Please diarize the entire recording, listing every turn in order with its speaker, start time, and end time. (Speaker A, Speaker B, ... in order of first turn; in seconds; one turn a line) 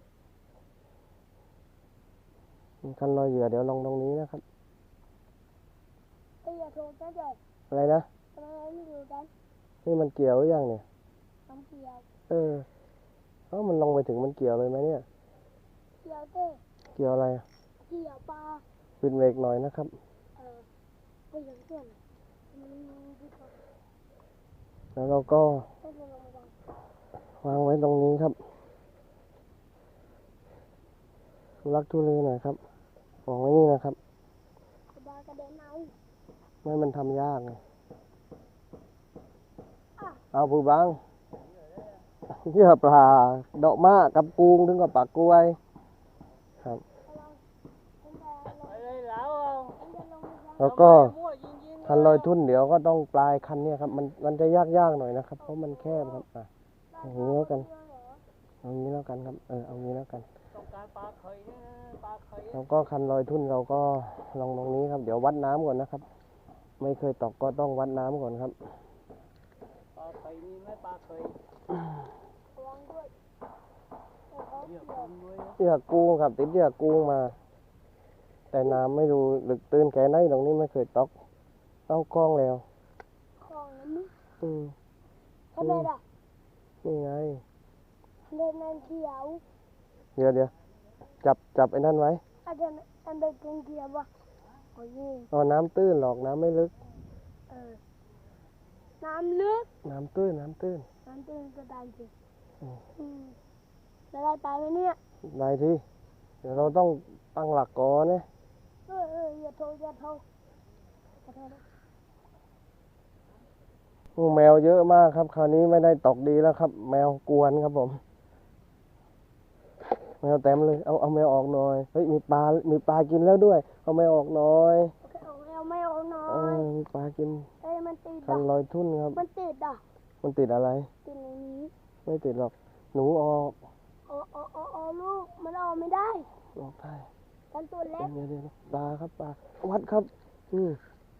Speaker A: 2.8-4.4
Speaker B: 6.4-7.4
Speaker A: 7.7-8.1
Speaker B: 8.3-9.3
Speaker A: 9.8-10.8
Speaker B: 11.5-12.1
Speaker A: 12.3-12.7
Speaker A: 13.5-15.0
Speaker B: 16.0-16.6
Speaker A: 16.9-17.4
Speaker B: 17.9-18.6
Speaker A: 19.0-19.9
Speaker B: 20.4-20.7
Speaker B: 21.3-22.0
Speaker B: 22.5-23.6
Speaker A: 24.9-25.6
Speaker B: 25.8-26.5
Speaker A: 27.4-28.4
Speaker A: 31.6-32.6
Speaker A: 33.2-34.0
Speaker B: 34.9-35.9
Speaker A: 36.6-37.6
Speaker B: 40.0-40.2
Speaker A: 40.3-41.0
Speaker A: 42.3-45.6
Speaker B: 47.0-47.4
Speaker B: 48.0-51.0
Speaker A: 50.6-56.5
Speaker C: 51.3-51.5
Speaker B: 55.4-56.2
Speaker B: 56.9-58.2
Speaker A: 57.0-57.7
Speaker A: 58.6-60.2
Speaker C: 60.9-62.1
Speaker A: 62.4-66.0
Speaker A: 66.8-68.5
Speaker C: 70.0-71.3
Speaker B: 72.5-73.1
Speaker B: 74.3-75.2
Speaker A: 75.5-77.3
Speaker A: 78.5-81.1
Speaker A: 81.9-82.6
Speaker B: 83.4-84.1
Speaker A: 84.4-84.7
Speaker B: 85.5-86.0
Speaker A: 85.6-85.9
Speaker A: 86.8-87.4
Speaker B: 88.3-89.4
Speaker A: 90.2-90.5
Speaker A: 91.2-92.2
Speaker B: 92.5-94.1
Speaker B: 94.8-95.3
Speaker A: 95.3-96.7
Speaker B: 97.5-97.8
Speaker B: 99.0-99.7
Speaker A: 99.8-100.8
Speaker B: 101.0-102.1
Speaker B: 103.0-103.4
Speaker B: 104.1-105.0
Speaker A: 105.3-105.8
Speaker A: 106.4-108.2
Speaker B: 108.9-110.2
Speaker B: 111.2-111.6
Speaker A: 114.2-118.0
Speaker A: 120.2-124.9
Speaker B: 125.0-126.7
Speaker A: 126.3-127.5
Speaker B: 127.6-128.4
Speaker A: 128.2-129.2
Speaker B: 129.1-129.8
Speaker A: 130.2-130.9
Speaker B: 131.0-131.7
Speaker A: 132.0-133.6
Speaker B: 134.1-136.3
Speaker A: 136.6-137.1
Speaker B: 137.5-138.1
Speaker A: 138.0-140.8